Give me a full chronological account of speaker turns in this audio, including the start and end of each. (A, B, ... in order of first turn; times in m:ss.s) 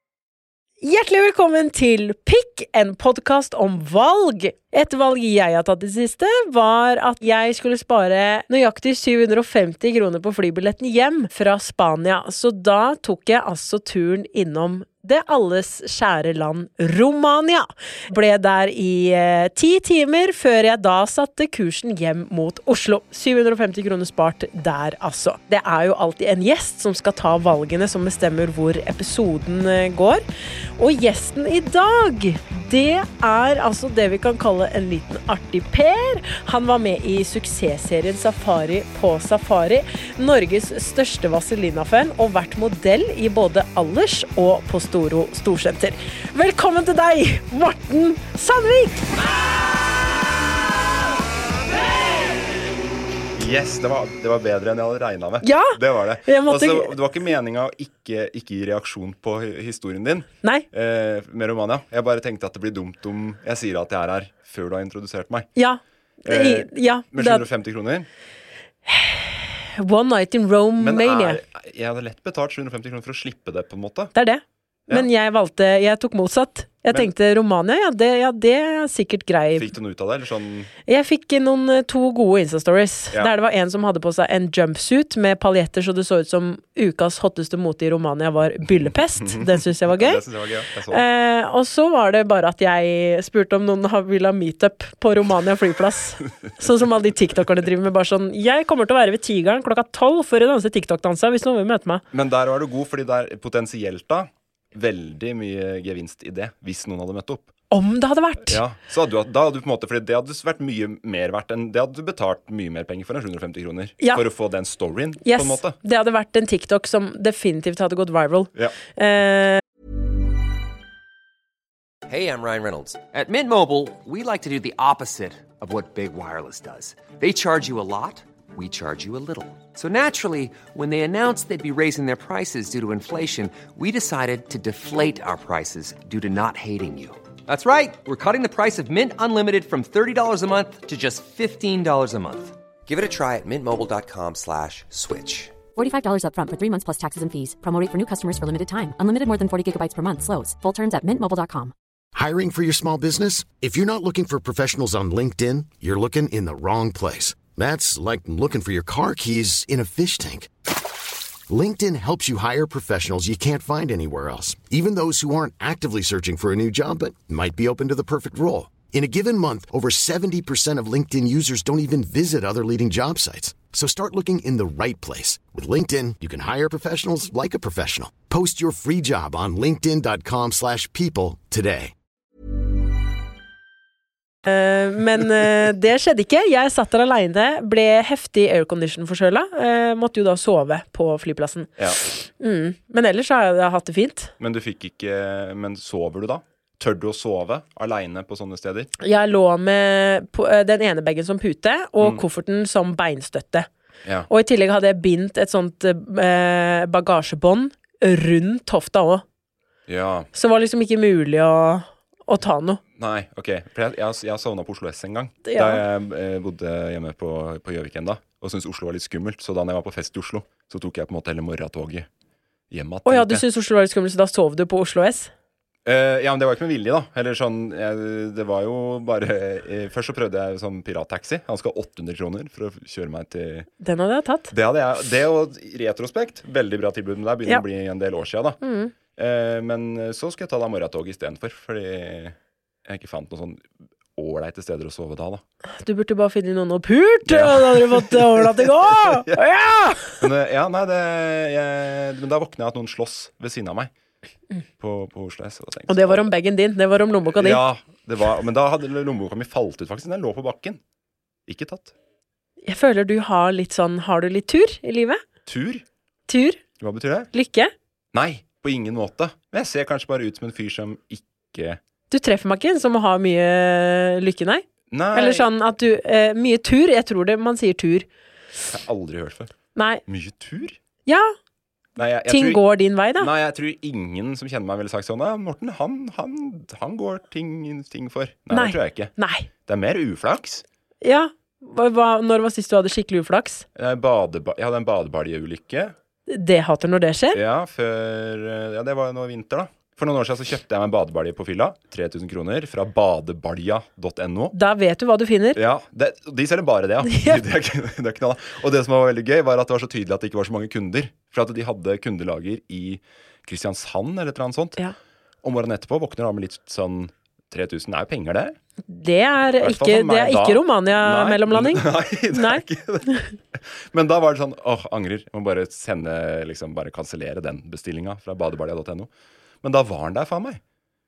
0:00.8-0:30.2 A
0:30.8-0:49.1 A
0:53.3-1:05.5 B
0:55.4-0:56.9 A
1:05.6-1:07.4 A
1:06.3-1:08.1 B
1:08.8-1:11.4 A
1:10.8-1:14.1 B
1:14.1-1:19.7 A
1:19.6-1:20.7 B
1:20.9-1:30.2 A
1:28.8-1:31.0 B
1:30.9-1:42.0 A
1:42.1-1:47.5 B
1:47.7-1:48.6 A
1:48.4-1:55.8 B
1:55.2-1:59.6 A
2:02.1-2:25.6 C
2:25.7-2:31.7 D
2:32.1-2:40.5 E
2:41.5-3:01.9 E
3:04.4-3:14.3 A
3:14.4-3:18.9 B
3:19.0-3:23.7 A
3:24.3-3:29.2 A
3:29.9-3:30.3 B
3:30.3-3:32.8 A
3:33.0-3:42.1 B
3:35.5-3:35.8 A
3:42.7-3:43.4 B
3:43.0-3:45.3 A
3:45.8-3:53.7 B
3:53.8-3:54.5 A
3:54.5-3:58.6 B
3:58.6-3:58.9 A
3:59.2-4:03.6 B
4:04.2-4:05.4 B
4:05.8-4:10.2 A
4:07.2-4:09.4 B
4:10.2-4:13.9 B
4:14.8-4:16.2 B
4:15.9-4:17.6 A
4:17.4-4:20.8 B
4:21.5-4:21.9 B
4:22.6-4:25.2 A
4:25.4-4:25.8 B
4:26.3-4:26.6 A
4:26.8-4:27.3 B
4:27.3-4:27.7 A
4:28.1-4:31.8 B
4:32.1-4:38.1 A
4:34.9-4:35.5 B
4:38.7-4:39.5 B
4:39.7-4:40.0 A
4:40.1-4:40.8 B
4:41.0-4:41.3 A
4:42.0-4:42.6 B
4:42.3-4:43.3 A
4:43.2-4:49.1 B
4:48.5-4:49.5 A
4:49.6-4:50.6 B
4:51.0-4:53.6 A
4:53.7-4:55.9 B
4:56.3-4:57.4 A
4:57.3-5:04.5 B
5:04.5-5:05.6 A
5:05.5-5:14.8 B
5:07.0-5:07.4 A
5:15.4-5:18.6 B
5:18.9-5:23.3 A
5:19.6-5:29.1 B
5:29.6-5:30.6 B